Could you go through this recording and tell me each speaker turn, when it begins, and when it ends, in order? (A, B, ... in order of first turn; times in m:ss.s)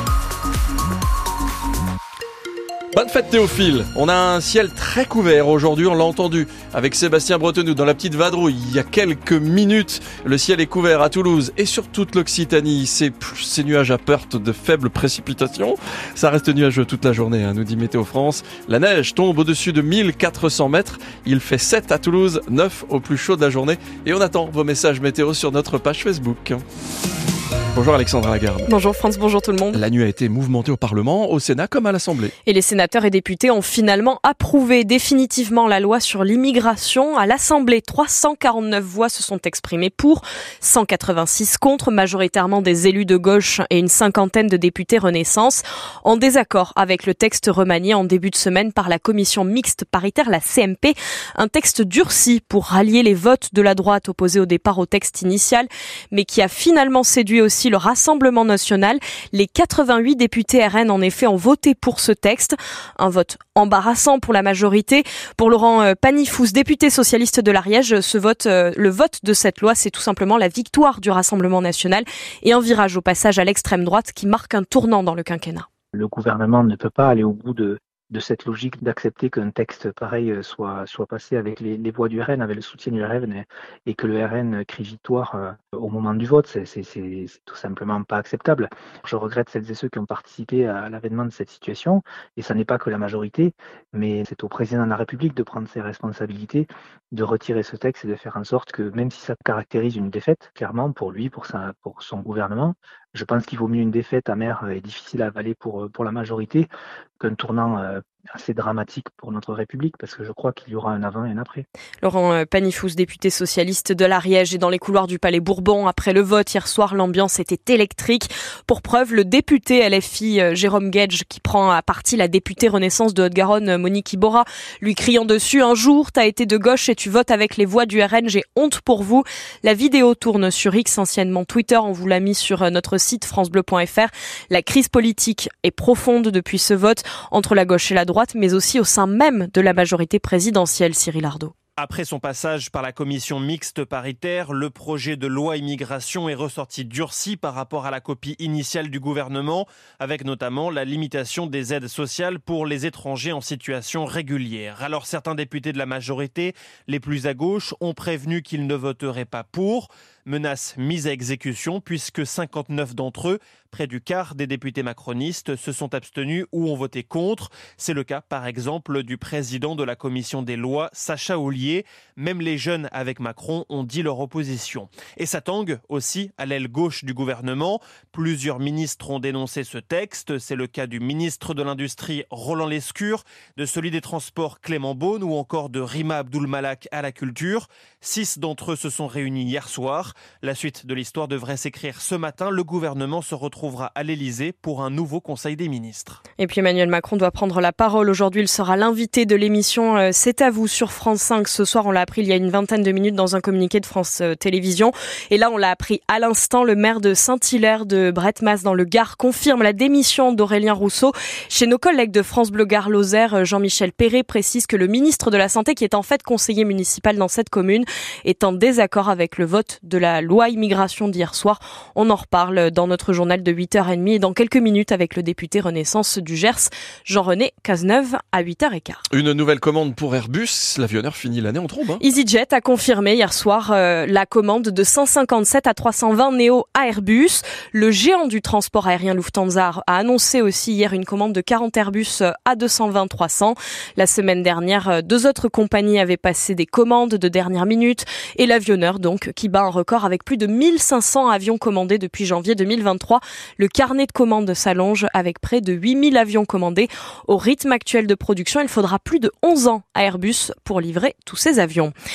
0:02.9-0:26.6 A
0:27.7-0:28.7 A
0:28.6-0:29.8 B
0:29.7-0:32.3 A
0:32.4-1:15.7 B
1:15.9-1:46.7 C
1:47.2-1:51.6 C
1:52.0-2:21.5 B
2:21.8-3:16.2 D
3:16.4-3:49.0 B
3:49.1-3:52.0 A
3:52.0-4:21.9 B